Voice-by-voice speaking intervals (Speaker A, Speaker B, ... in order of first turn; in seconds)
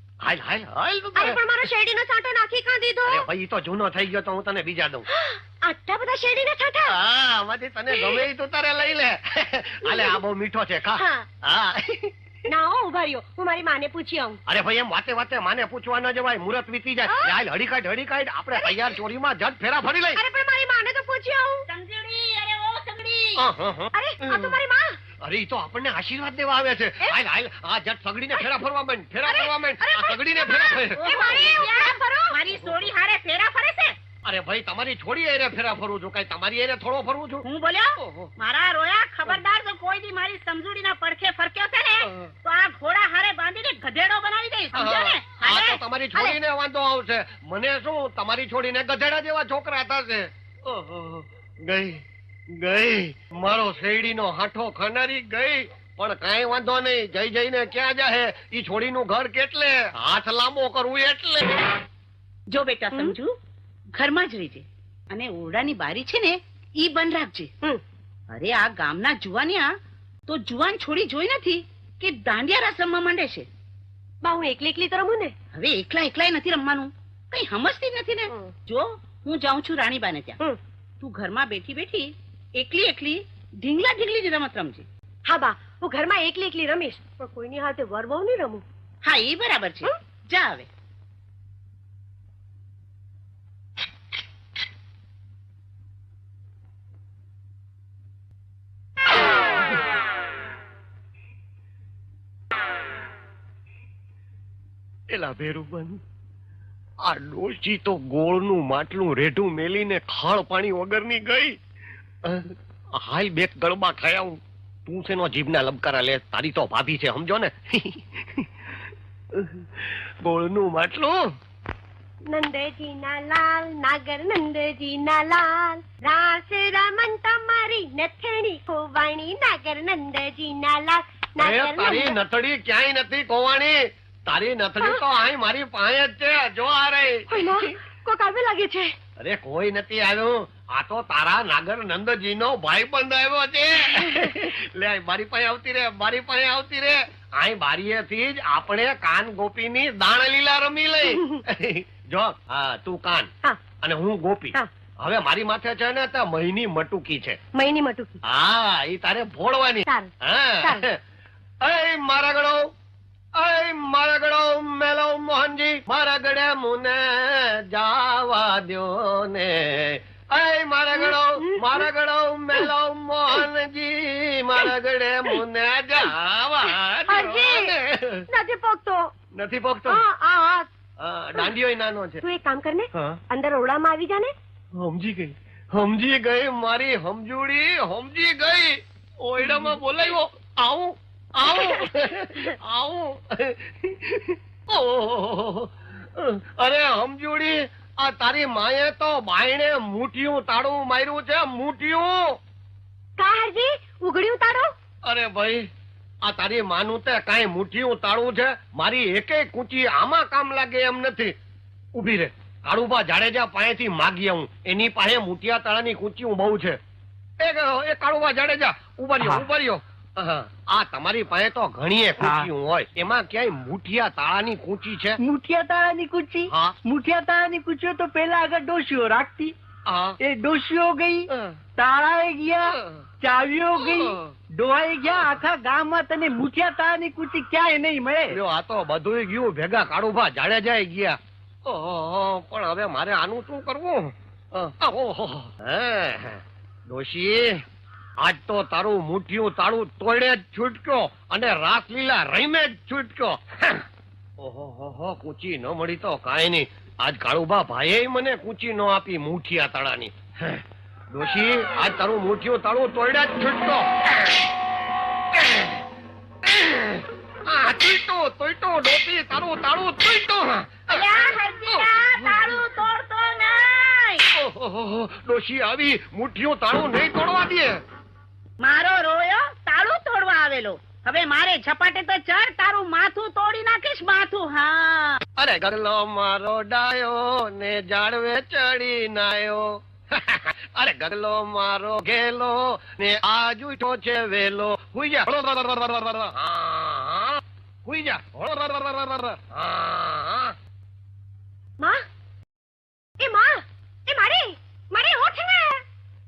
Speaker A: 0.2-1.4, 3.0-5.0, 6.9-12.1, 14.5-20.2, 23.4-24.6, 25.2-31.5, 34.2-37.4, 38.0-38.3, 44.7-52.0, 52.5-61.6, 105.1-106.0, 107.0-111.5, 112.2-118.5, 119.3-121.2, 131.4-133.8, 134.3-137.6, 139.2-157.4, 158.2-161.0, 161.6-162.6, 163.4-178.2, 179.3-180.0, 181.0-182.2, 182.9-183.2, 184.8-202.2, 205.0-205.7, 206.2-211.3, 211.9-216.8, 217.4-225.2, 226.5-226.8, 229.9-230.2, 231.3-231.6, 232.7-233.0, 233.8-234.2, 238.3-247.4, 248.2-253.8, 254.4-264.4, 265.3-265.8, 266.5-272.6, 274.3-277.7, 285.4-300.5
Speaker B: 1.1-3.2, 5.1-7.0, 7.9-8.2, 9.8-10.2, 11.0-11.3, 12.5-14.4, 17.1-17.4, 20.1-21.6, 23.9-25.0, 29.2-32.4, 74.2-75.3, 85.2-88.6, 122.3-132.2, 137.3-138.9, 144.0-144.3, 151.1-151.4, 157.5-158.2, 171.0-171.8, 177.1-177.7, 178.3-179.1, 179.9-180.7, 182.2-184.3, 191.5-191.8, 203.2-204.7, 303.2-305.8
Speaker C: 21.7-23.4, 30.9-34.0, 37.4-46.4, 62.5-63.4, 63.9-67.5, 68.3-69.7, 70.3-73.5, 75.5-80.4, 81.0-84.8, 89.0-90.7, 270.9-274.2, 278.6-285.2
Speaker D: 219.2-219.4, 222.2-222.5, 225.2-229.5, 230.2-238.4